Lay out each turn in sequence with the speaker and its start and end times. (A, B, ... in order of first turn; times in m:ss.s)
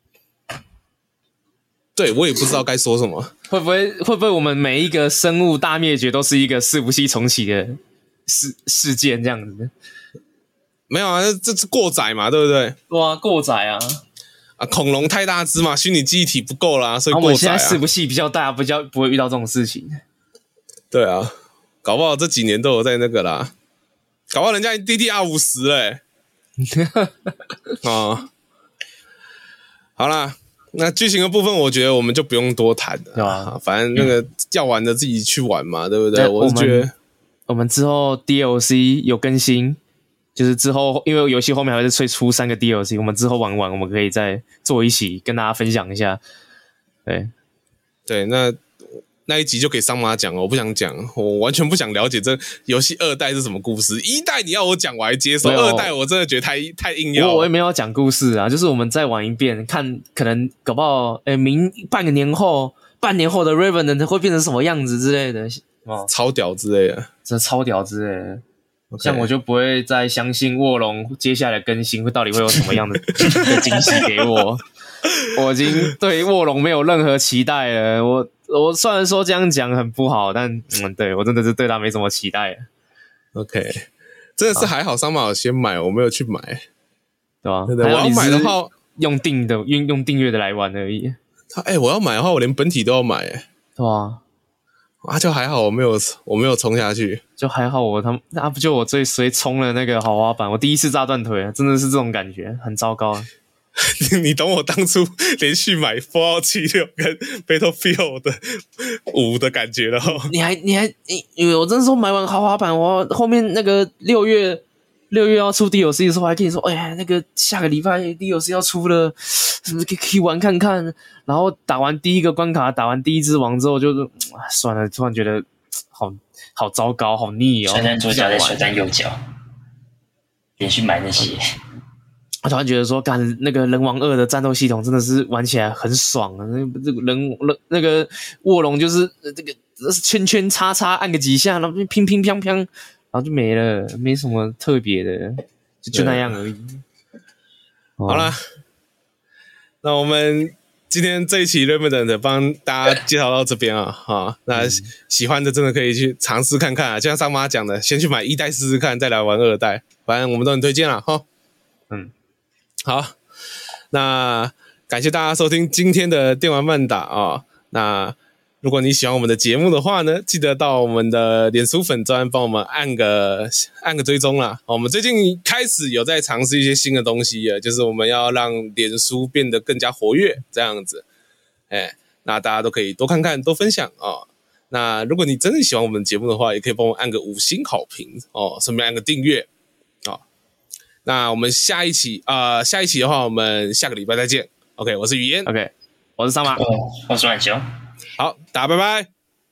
0:02.0-0:03.3 A
0:03.5-0:09.7 B
0:10.9-0:12.8 A
0:12.9-0:14.0 B
0:14.6-0:17.8 A
0:17.1-0:20.0 B
0:20.9-0:21.3 A
0:21.8-0:23.5 A
0:24.3-0:26.0 A
0:26.6-0:27.3 B
0:27.8-0:28.3 A
0:30.0-0:36.9 A
0:33.1-0:33.5 B
0:36.1-0:36.9 B
0:37.5-0:39.8 B
0:40.4-0:46.2 B
0:47.0-0:47.3 B
0:48.1-0:48.6 A
0:49.2-0:57.5 A
0:55.4-0:55.9 B
0:57.1-1:06.1 B
1:06.1-1:07.1 A
1:07.2-1:08.4 B
1:08.9-1:09.3 A
1:09.0-1:14.6 B
1:13.1-1:14.0 A
1:13.3-1:14.0 C
1:15.2-1:22.7 B
1:23.3-1:26.6 A
1:27.4-1:31.2 B
1:27.7-1:28.7 A
1:31.5-1:33.4 A
1:33.8-1:34.2 B
1:35.0-1:37.2 A
1:37.4-1:43.3 B
1:43.8-1:50.3 A
1:50.0-2:08.6 B
2:07.7-2:09.2 C
2:10.6-2:11.4 C
2:12.4-2:26.8 B
2:25.9-2:26.3 A
2:28.0-2:28.3 B
2:28.1-2:28.4 A
2:29.8-2:41.2 A
2:34.5-2:34.9 B
2:42.8-2:43.1 A
2:43.9-3:01.0 A
3:01.7-3:09.5 A
3:11.0-3:15.5 A
3:15.4-3:16.6 B
3:16.5-3:17.6 C
3:18.2-3:19.1 A